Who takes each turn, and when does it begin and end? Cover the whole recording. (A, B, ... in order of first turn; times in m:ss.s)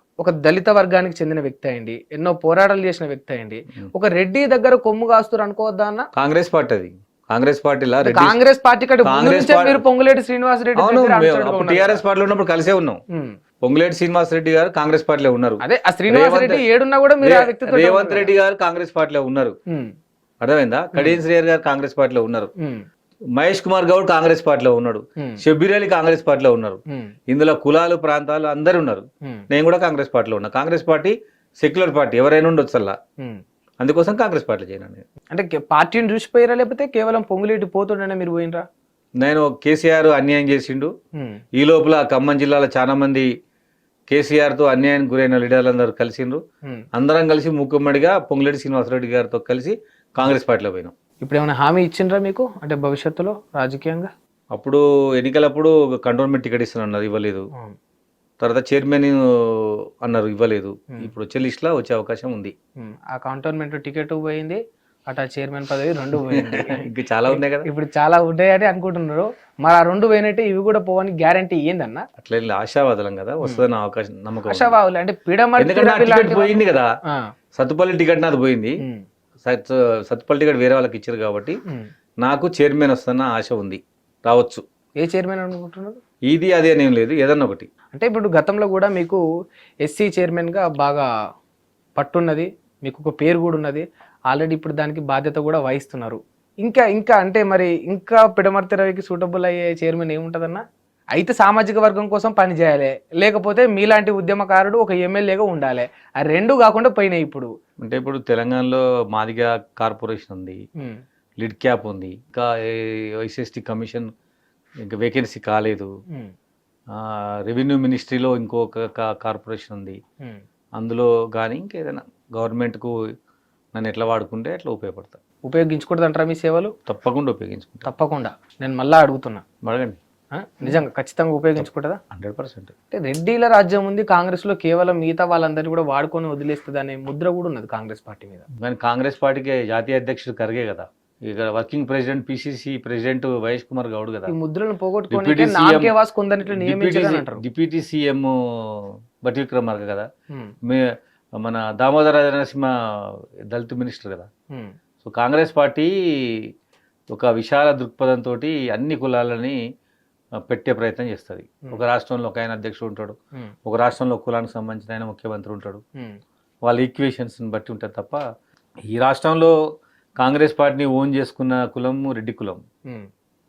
0:00.2-0:06.0 A
0:06.2-0:08.4 B
0:08.0-0:12.0 A
0:09.0-0:09.8 B
0:10.8-0:13.0 B
0:13.6-0:16.6 B
0:15.6-0:18.3 A
0:17.2-0:19.6 B
0:20.4-0:22.5 B
0:22.6-0:22.8 A
0:23.4-0:33.0 B
0:33.8-0:35.0 B
0:35.3-0:38.6 A
0:39.2-0:40.9 B
0:41.6-0:43.3 B
0:44.1-0:46.4 B
0:46.9-0:50.9 B
0:51.2-0:54.1 A
0:54.5-0:57.4 B
0:58.4-1:02.5 B
1:02.8-1:12.0 A
1:06.3-1:07.7 B
1:12.2-1:14.8 B
1:14.5-1:17.2 A
1:15.6-1:16.9 B
1:17.6-1:18.8 B
1:19.4-1:21.6 B
1:22.2-1:24.6 B
1:25.0-1:26.0 A
1:26.3-1:27.7 B
1:27.9-1:29.2 A
1:29.8-1:31.0 A
1:32.0-1:40.6 A
1:41.1-1:47.5 A
1:47.8-1:50.6 B
1:51.4-1:54.1 B
1:54.8-1:55.9 B
1:57.0-2:00.0 B
2:00.8-2:02.9 B
2:03.7-2:05.2 B
2:05.4-2:06.7 A
2:06.9-2:07.9 B
2:07.8-2:09.4 A
2:09.6-2:10.0 B
2:10.3-2:12.0 A
2:11.6-2:12.7 B
2:12.9-2:18.4 A
2:18.6-2:24.3 B
2:24.3-2:27.4 A
2:25.1-2:25.9 B
2:26.5-2:30.1 B
2:30.7-2:34.3 B
2:35.0-2:36.5 B
2:37.1-2:39.6 B
2:40.5-2:45.8 B
2:46.6-2:48.2 B
2:48.9-2:49.5 B
2:50.2-2:52.6 B